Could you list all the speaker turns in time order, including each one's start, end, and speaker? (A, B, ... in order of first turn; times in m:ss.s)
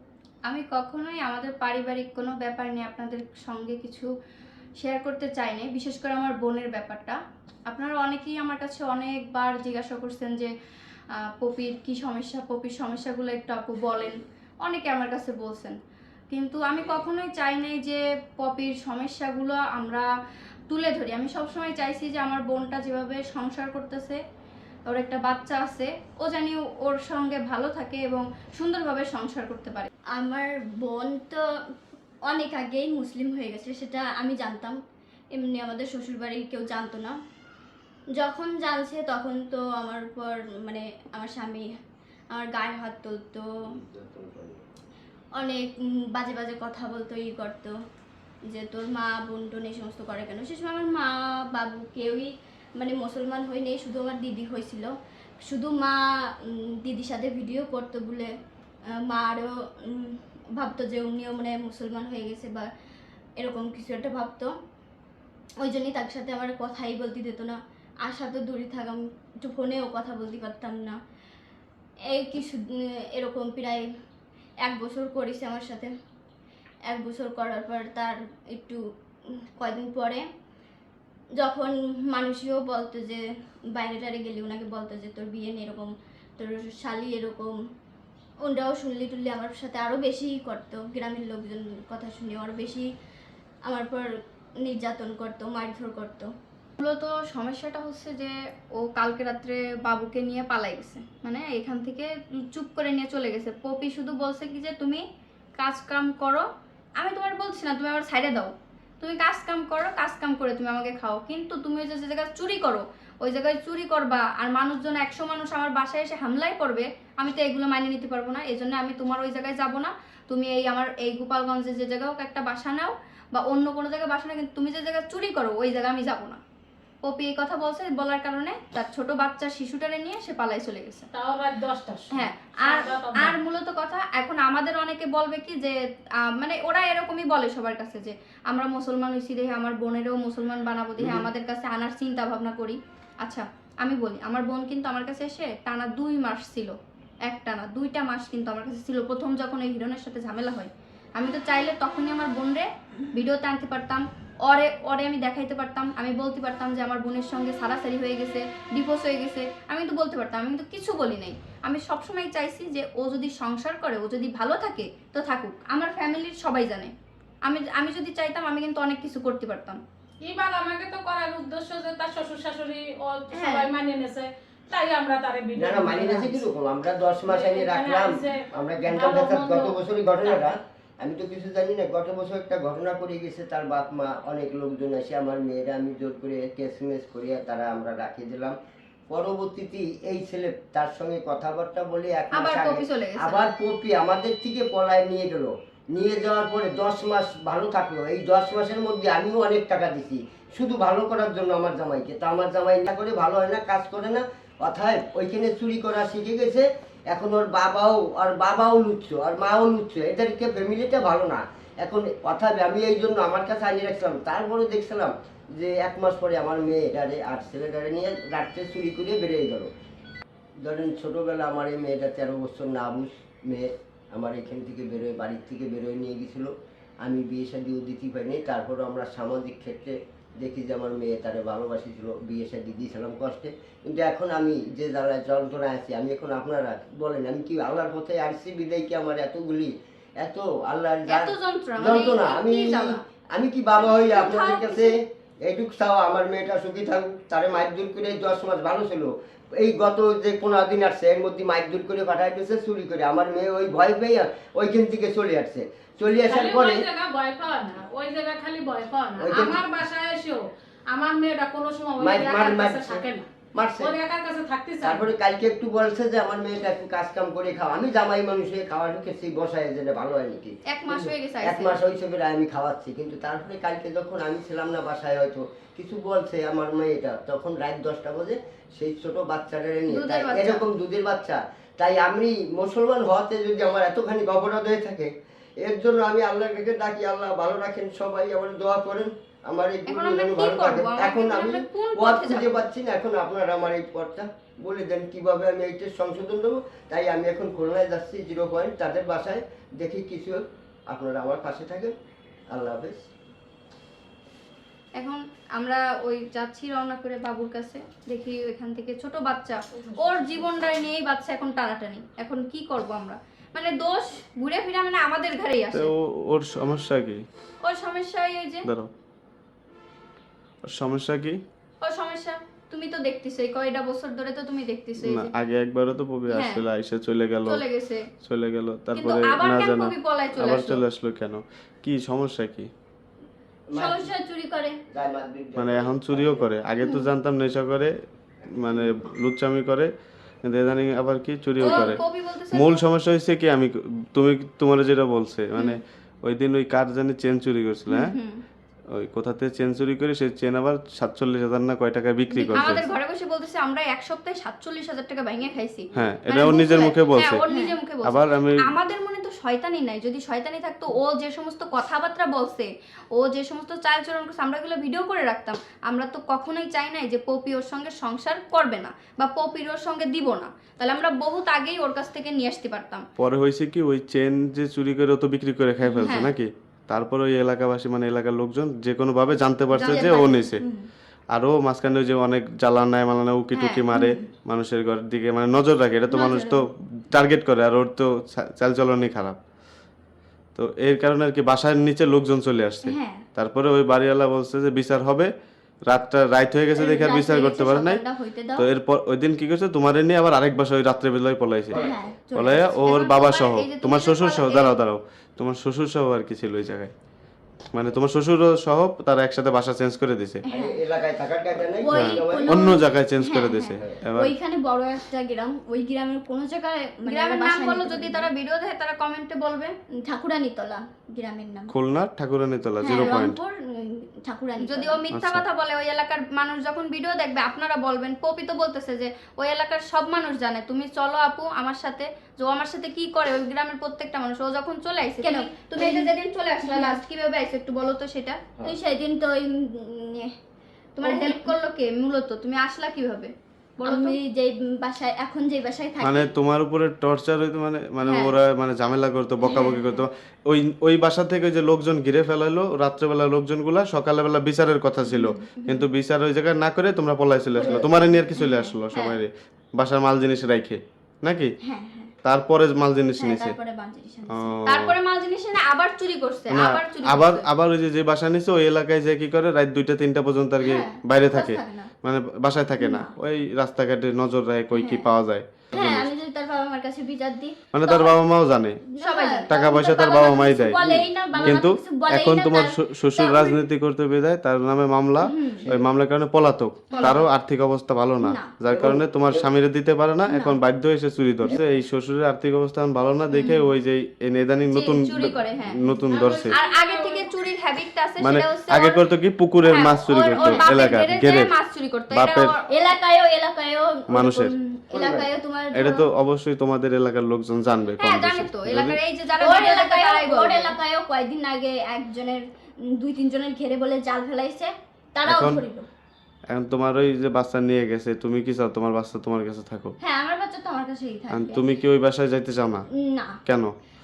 0:00.5-0:04.1 A
0:04.8-0:07.2 A
0:07.7-0:10.5 A
0:11.2-0:15.8 A
0:16.3-0:20.1 A
0:20.7-0:24.2 A
0:24.9-0:29.9 A
0:30.2-0:31.4 B
0:32.3-0:34.8 B
0:35.4-0:37.2 B
0:38.2-0:41.7 B
0:42.3-0:43.5 B
0:43.6-0:44.6 C
0:45.4-0:47.7 B
0:48.5-0:54.9 B
0:55.4-0:58.3 B
0:59.1-1:02.7 B
1:03.4-1:04.5 B
1:05.6-1:11.0 B
1:12.1-1:13.9 B
1:14.7-1:15.9 B
1:16.9-1:18.8 B
1:19.6-1:20.2 B
1:21.4-1:23.2 B
1:23.8-1:27.5 B
1:28.4-1:32.9 B
1:33.7-1:34.1 B
1:34.6-1:36.3 B
1:36.8-1:45.0 A
1:45.6-1:46.4 A
1:47.0-2:06.4 A
2:07.0-2:11.1 A
2:11.1-2:13.4 D
2:12.1-2:26.7 A
2:21.0-2:21.3 C
2:27.3-2:46.9 A
2:47.4-2:49.8 A
2:50.2-2:56.4 D
2:53.3-2:53.7 A
2:55.6-3:08.6 C
2:57.3-3:00.5 D
3:09.1-3:39.7 C
3:12.3-3:13.4 A
3:40.6-4:04.9 C
4:01.1-4:03.0 A
4:03.8-4:04.9 A
4:05.4-4:16.8 C
4:16.2-4:25.1 D
4:19.2-4:19.6 C
4:22.0-4:24.0 C
4:24.8-5:01.9 C
4:30.7-4:31.8 A
4:39.9-4:40.6 A
4:49.9-4:52.6 A
5:02.5-5:03.0 C
5:05.0-5:15.9 A
5:09.8-5:10.6 D
5:15.7-5:17.2 E
5:17.6-5:18.7 A
5:20.6-5:21.4 E
5:21.8-5:25.3 A
5:25.0-5:27.6 E
5:26.3-5:26.6 A
5:27.5-5:28.1 A
5:28.2-5:32.7 E
5:28.9-5:30.8 A
5:33.7-5:34.1 C
5:33.7-5:34.8 B
5:34.9-5:36.4 C
5:35.6-5:38.0 E
5:38.6-5:39.9 E
5:40.4-5:42.0 E
5:41.6-5:42.8 A
5:42.5-5:48.2 E
5:47.9-5:48.4 A
5:48.9-5:52.8 E
5:52.4-6:13.0 A
5:52.5-5:52.8 B
5:56.0-5:57.4 E
5:57.5-5:57.8 B
5:58.0-5:58.7 E
6:13.2-6:20.6 E
6:15.8-6:16.2 B
6:16.0-6:16.3 A
6:19.8-6:20.5 A
6:19.8-6:20.9 B
6:21.3-6:29.4 E
6:23.6-6:23.8 A
6:23.9-6:24.3 B
6:26.1-6:26.6 B
6:30.6-6:35.3 E
6:32.8-6:33.2 B
6:35.9-6:38.0 E
6:36.8-6:38.7 B
6:38.6-6:46.9 E
6:41.7-6:42.5 C
6:41.8-6:42.6 B
6:42.8-6:44.7 A
6:47.7-6:50.4 E
6:50.5-6:50.8 B
6:50.5-6:52.6 C
6:51.8-6:58.3 B
6:51.9-6:54.3 E
6:57.1-6:59.7 A
7:00.1-7:01.7 B
7:01.7-7:03.4 E
7:02.8-7:05.0 B
7:03.0-7:03.2 A
7:04.6-7:18.4 A
7:05.1-7:05.4 E
7:15.2-7:16.1 B
7:16.6-7:17.0 B
7:18.6-7:20.3 B
7:21.0-7:24.2 A
7:21.0-7:21.5 B
7:23.8-7:26.3 B
7:26.0-7:41.5 E
7:28.0-7:28.4 A
7:29.4-7:30.0 B
7:35.1-7:35.8 B
7:37.6-7:38.7 B
7:38.9-7:39.2 A
7:41.6-7:42.1 B
7:42.2-7:43.6 E
7:43.2-7:44.5 B
7:44.3-7:45.0 E
7:44.7-7:47.5 A
7:46.5-7:56.1 E
7:50.6-7:51.9 B
7:52.8-7:53.1 B
7:54.7-7:55.1 B
7:55.7-7:58.2 B
7:57.7-7:58.8 E
7:58.9-8:03.6 B
7:59.0-7:59.5 A
7:59.5-8:16.6 E
8:05.3-8:05.6 B
8:06.9-8:07.2 B
8:06.9-8:07.2 A
8:08.2-8:08.5 B
8:08.7-8:09.4 C
8:10.3-8:10.6 B
8:14.7-8:15.8 A
8:16.1-8:17.3 D
8:16.5-8:19.0 A
8:18.2-8:21.5 E
8:19.6-8:22.6 A
8:20.4-8:20.7 B
8:22.1-8:22.5 E
8:22.7-8:26.0 B
8:24.1-8:24.5 E
8:24.9-8:25.3 C
8:25.7-8:29.0 E
8:28.0-8:30.7 A
8:29.4-8:35.9 B
8:35.2-8:35.6 E
8:36.5-8:39.9 E
8:40.0-8:41.6 B
8:41.3-8:42.9 E
8:43.0-8:43.4 B
8:43.5-8:43.8 E